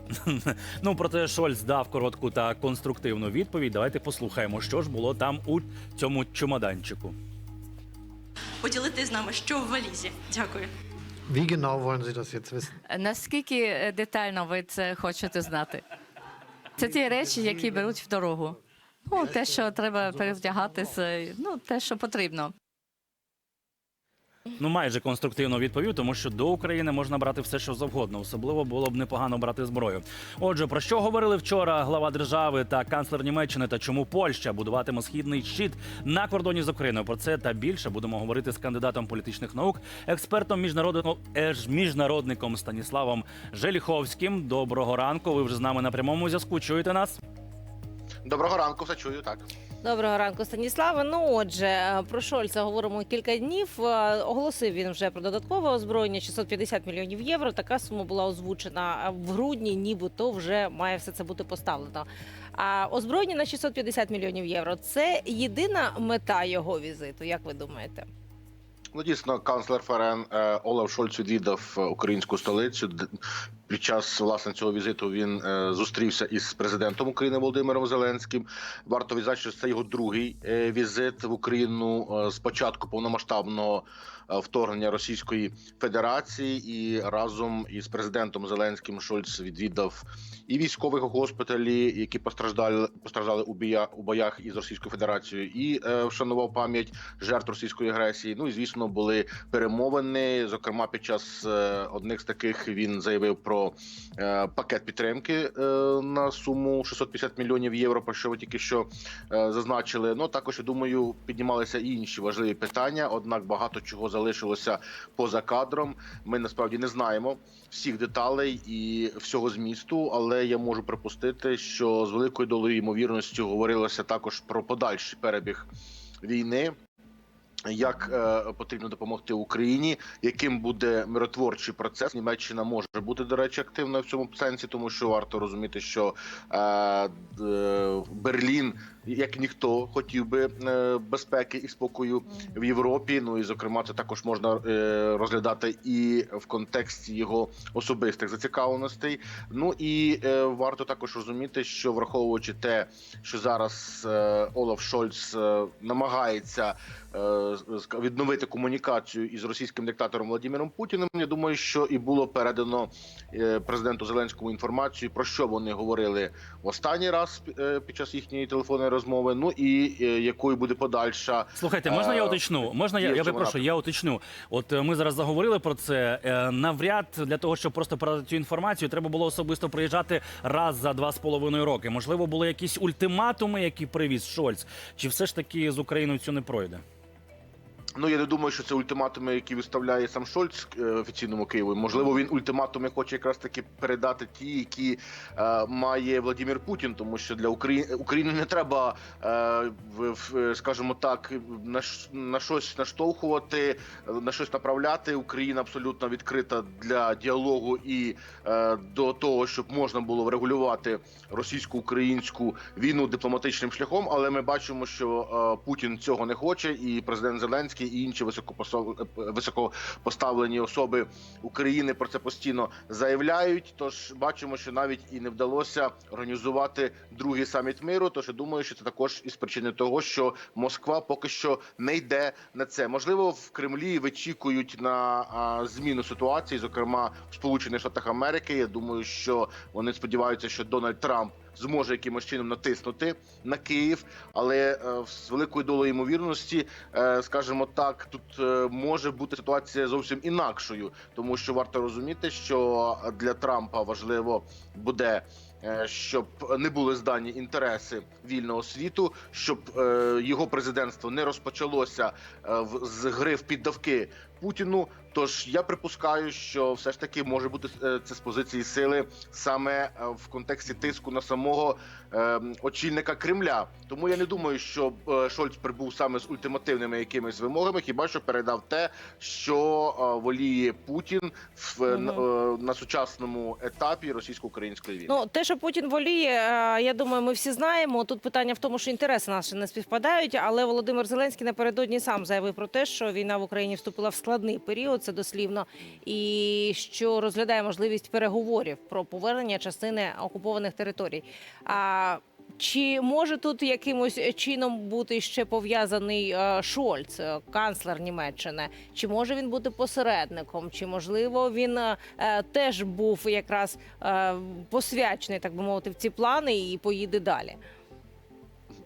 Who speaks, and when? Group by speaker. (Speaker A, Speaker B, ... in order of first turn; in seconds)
Speaker A: 0.2-7.2, 24.6-47.2, 171.6-186.8
Speaker B: 8.6-10.7
Speaker C: 11.3-12.8, 16.8-17.9, 19.2-21.0
Speaker D: 12.9-15.8, 16.8-22.5
Speaker E: 48.2-49.5, 68.9-73.1, 73.7-125.7, 126.2-126.8, 127.7-173.7, 188.0-285.1
Speaker F: 49.8-68.1, 281.9-282.2, 285.1-317.6